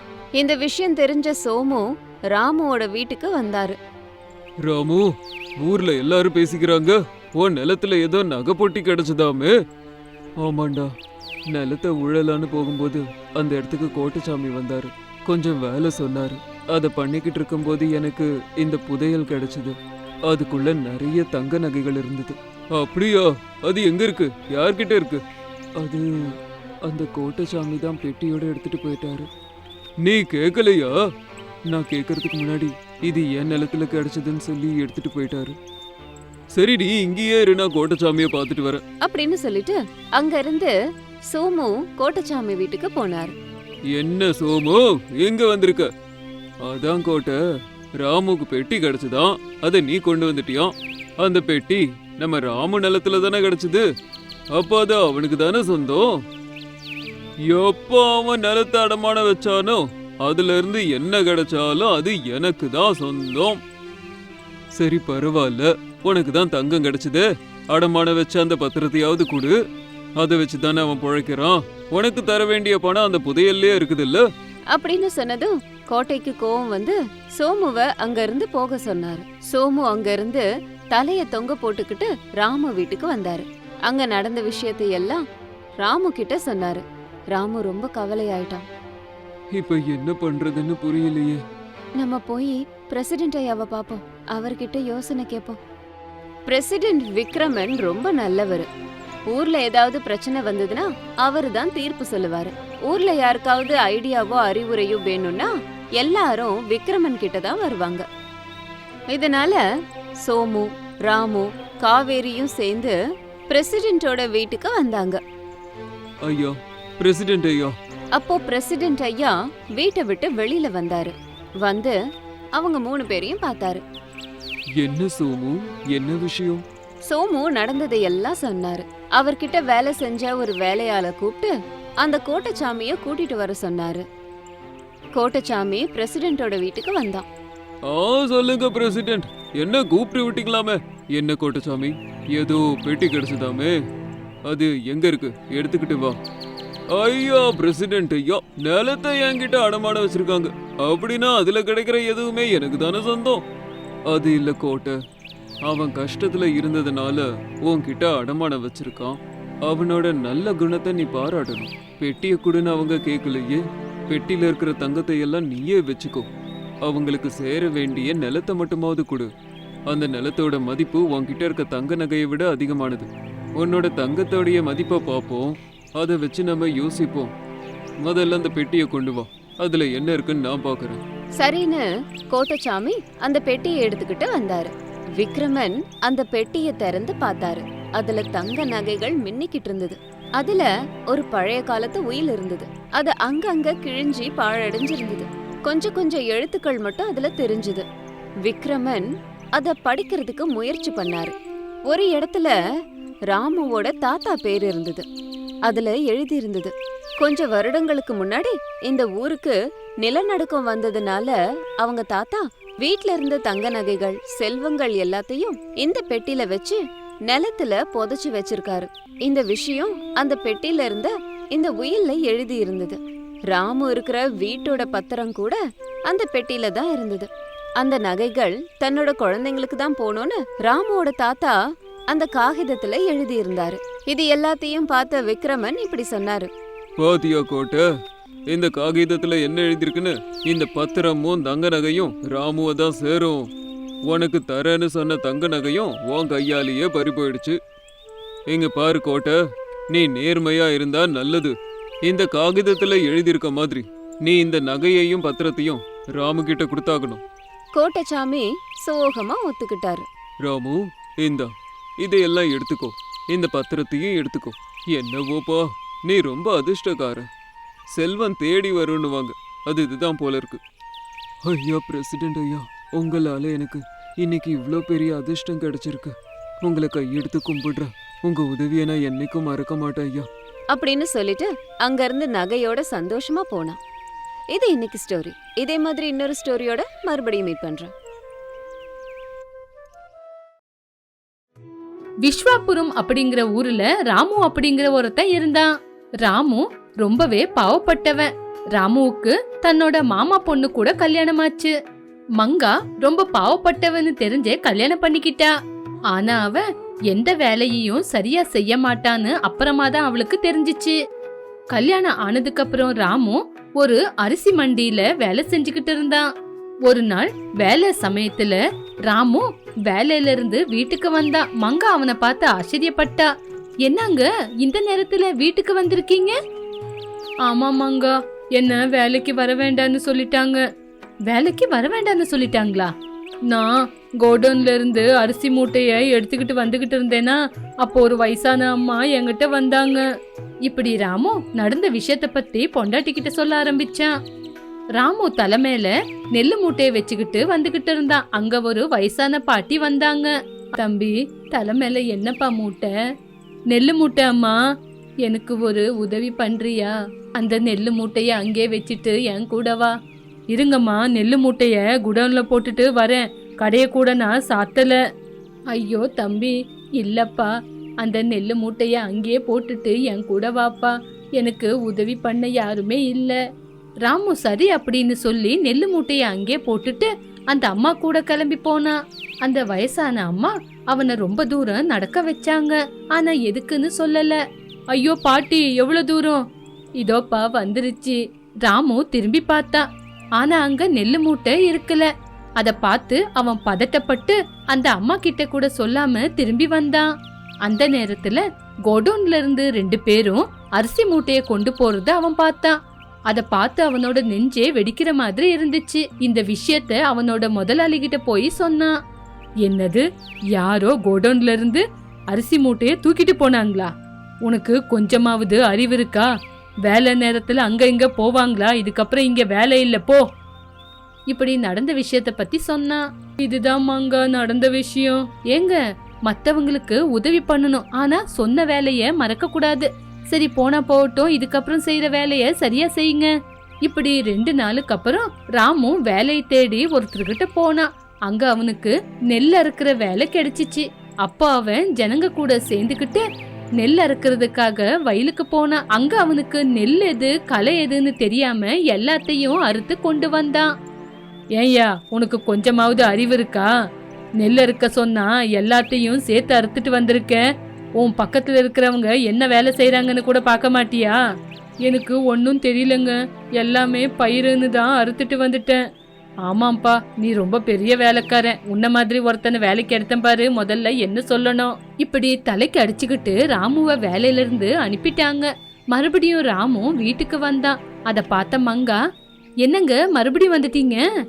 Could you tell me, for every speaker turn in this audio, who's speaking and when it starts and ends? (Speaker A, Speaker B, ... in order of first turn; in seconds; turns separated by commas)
Speaker A: 0.4-3.8, Speaker B: 4.6-5.1, Speaker B: 5.6-9.5, Speaker B: 10.4-10.9, Speaker B: 11.5-19.8, Speaker B: 20.3-25.2, Speaker B: 25.8-26.1, Speaker B: 26.8-29.3, Speaker B: 30.0-30.9, Speaker B: 31.7-35.5, Speaker B: 36.5-38.8, Speaker A: 39.0-40.7, Speaker A: 41.3-43.3, Speaker B: 43.9-45.9, Speaker B: 46.6-47.4, Speaker B: 48.0-53.9, Speaker B: 54.5-56.2, Speaker B: 57.5-63.6, Speaker B: 64.8-69.5, Speaker B: 70.2-74.2, Speaker A: 74.7-85.2, Speaker A: 85.8-88.6, Speaker B: 89.5-91.4, Speaker A: 92.0-95.6, Speaker A: 96.5-98.7, Speaker A: 99.3-108.0, Speaker A: 109.1-109.6, Speaker A: 110.2-113.0, Speaker A: 113.5-115.2, Speaker B: 116.2-117.8, Speaker A: 118.1-122.0, Speaker A: 122.5-123.8, Speaker B: 124.8-126.6, Speaker A: 127.0-134.0, Speaker A: 135.1-137.3, Speaker B: 137.9-143.8, Speaker B: 144.5-146.2, Speaker B: 146.9-153.4, Speaker B: 154.1-155.0, Speaker B: 155.7-166.3, Speaker B: 166.8-169.3, Speaker B: 169.9-177.3, Speaker B: 178.0-181.0, Speaker A: 181.4-197.8, Speaker A: 198.4-201.3, Speaker A: 201.9-202.6, Speaker A: 203.3-205.0, Speaker A: 205.7-223.0, Speaker A: 223.5-227.3, Speaker A: 227.8-231.5, Speaker A: 232.1-236.5, Speaker B: 237.0-237.9, Speaker B: 238.5-243.5, Speaker B: 244.1-247.6, Speaker B: 248.5-249.4, Speaker B: 249.9-251.5, Speaker B: 252.1-257.2, Speaker A: 257.8-260.1, Speaker B: 260.4-267.3, Speaker B: 267.9-270.6, Speaker B: 271.4-280.3, Speaker A: 280.7-283.8, Speaker A: 284.5-287.9, Speaker C: 292.2-295.7, Speaker C: 296.2-301.7, Speaker C: 302.4-305.5, Speaker C: 306.1-311.0, Speaker C: 311.7-316.2, Speaker C: 316.9-323.3, Speaker C: 323.8-326.3, Speaker C: 327.4-330.6, Speaker C: 331.3-332.9, Speaker C: 333.5-340.0, Speaker C: 340.6-344.1, Speaker C: 344.9-352.9, Speaker C: 353.7-354.6, Speaker C: 355.2-359.9, Speaker C: 360.5-365.0, Speaker C: 365.7-367.5, Speaker C: 368.0-373.4, Speaker C: 374.0-384.4, Speaker C: 384.9-386.4, Speaker C: 387.0-389.8, Speaker C: 390.4-392.1, Speaker C: 392.6-397.1, Speaker C: 397.6-402.7, Speaker C: 403.3-408.9, Speaker C: 409.6-413.9, Speaker C: 414.4-416.3, Speaker C: 416.8-420.2, Speaker C: 421.3-433.3, Speaker C: 433.8-443.2, Speaker C: 443.8-450.7, Speaker C: 451.6-453.7, Speaker C: 454.4-457.4, Speaker C: 458.0-461.2, Speaker C: 461.8-465.8, Speaker C: 466.4-479.0, Speaker C: 479.6-481.0